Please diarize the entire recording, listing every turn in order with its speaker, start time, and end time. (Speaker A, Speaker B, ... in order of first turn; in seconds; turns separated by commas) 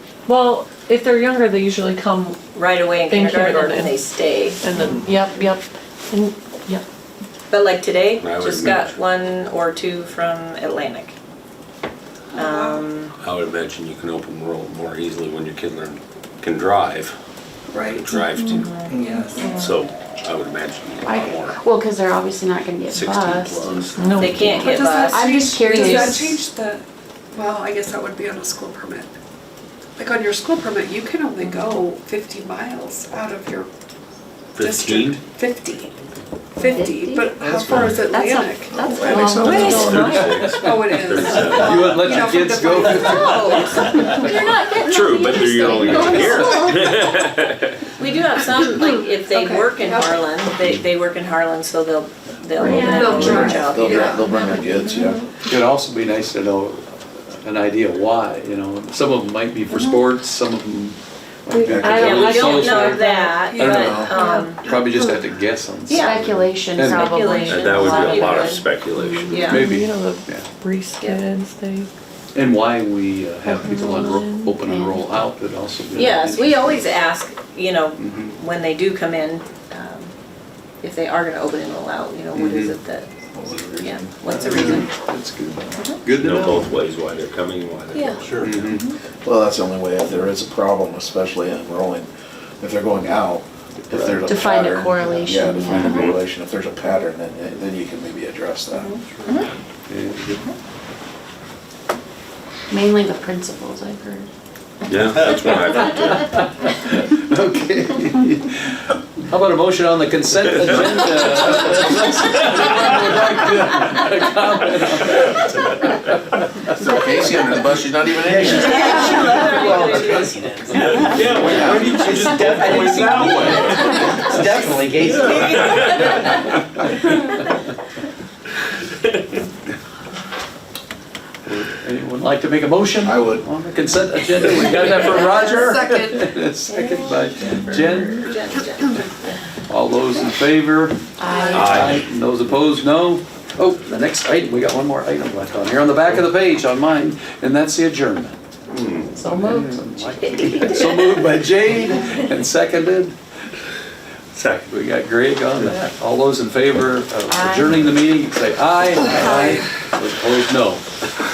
Speaker A: 0.2-2.5, Speaker B: 2.5-4.6, Speaker A: 3.0-4.0, Speaker A: 4.6-6.8, Speaker B: 7.5-11.2, Speaker C: 8.2-8.9, Speaker D: 12.3-12.9, Speaker B: 12.3-13.1, Speaker C: 13.2-17.1, Speaker D: 17.7-18.0, Speaker C: 17.9-18.9, Speaker A: 18.1-18.6, Speaker B: 18.4-18.9, Speaker D: 18.9-19.5, Speaker E: 19.4-19.7, Speaker C: 19.5-21.6, Speaker E: 21.0-26.4, Speaker C: 22.9-24.1, Speaker A: 23.9-24.4, Speaker B: 24.1-25.3, Speaker D: 24.4-29.1, Speaker A: 25.7-26.1, Speaker D: 30.0-33.7, Speaker C: 34.5-35.2, Speaker D: 34.6-35.9, Speaker D: 36.5-39.5, Speaker E: 36.6-37.2, Speaker C: 37.5-38.0, Speaker A: 38.0-40.6, Speaker F: 38.7-40.2, Speaker C: 39.4-42.2, Speaker G: 40.4-41.0, Speaker D: 40.6-44.6, Speaker G: 41.5-44.3, Speaker A: 43.2-47.0, Speaker C: 43.5-43.9, Speaker B: 44.2-44.8, Speaker C: 44.8-47.8, Speaker B: 48.0-54.2, Speaker D: 49.3-50.3, Speaker D: 52.6-54.6, Speaker F: 52.6-55.2, Speaker E: 52.6-53.7, Speaker A: 54.8-55.2, Speaker G: 55.5-67.1, Speaker A: 59.7-60.0, Speaker F: 61.5-62.3, Speaker A: 61.5-63.4, Speaker B: 61.9-64.6, Speaker D: 63.5-64.8, Speaker F: 63.7-64.1, Speaker A: 64.1-64.5, Speaker B: 65.9-66.2, Speaker E: 65.9-68.6, Speaker B: 66.8-68.7, Speaker C: 67.4-69.6, Speaker A: 68.9-71.9, Speaker B: 69.3-69.7, Speaker G: 69.5-70.5, Speaker G: 72.3-76.8, Speaker A: 73.4-74.5, Speaker E: 73.7-75.1, Speaker B: 75.9-80.1, Speaker B: 80.8-84.9, Speaker F: 83.3-84.8, Speaker G: 84.3-86.7, Speaker C: 86.1-88.7, Speaker B: 87.9-88.2, Speaker F: 88.2-92.1, Speaker G: 88.4-88.9, Speaker F: 92.6-99.0, Speaker G: 93.9-94.3, Speaker E: 94.2-96.1, Speaker C: 95.8-96.2, Speaker B: 98.7-99.5, Speaker G: 99.9-100.4, Speaker E: 102.7-104.3, Speaker C: 104.9-106.3, Speaker G: 105.5-116.4, Speaker F: 116.7-120.2, Speaker H: 118.3-126.3, Speaker B: 118.5-120.4, Speaker G: 120.8-124.4, Speaker F: 120.9-124.3, Speaker C: 120.9-122.4, Speaker C: 125.1-126.1, Speaker G: 131.5-138.4, Speaker F: 133.0-133.4, Speaker D: 135.2-136.2, Speaker B: 136.7-139.4, Speaker G: 139.7-141.0, Speaker E: 141.2-141.8, Speaker C: 141.5-142.0, Speaker G: 141.5-148.4, Speaker C: 148.7-149.1, Speaker E: 149.1-149.8, Speaker G: 149.2-153.2, Speaker B: 150.3-151.2, Speaker C: 154.3-154.7, Speaker G: 154.6-160.8, Speaker E: 157.3-157.8, Speaker E: 159.1-159.6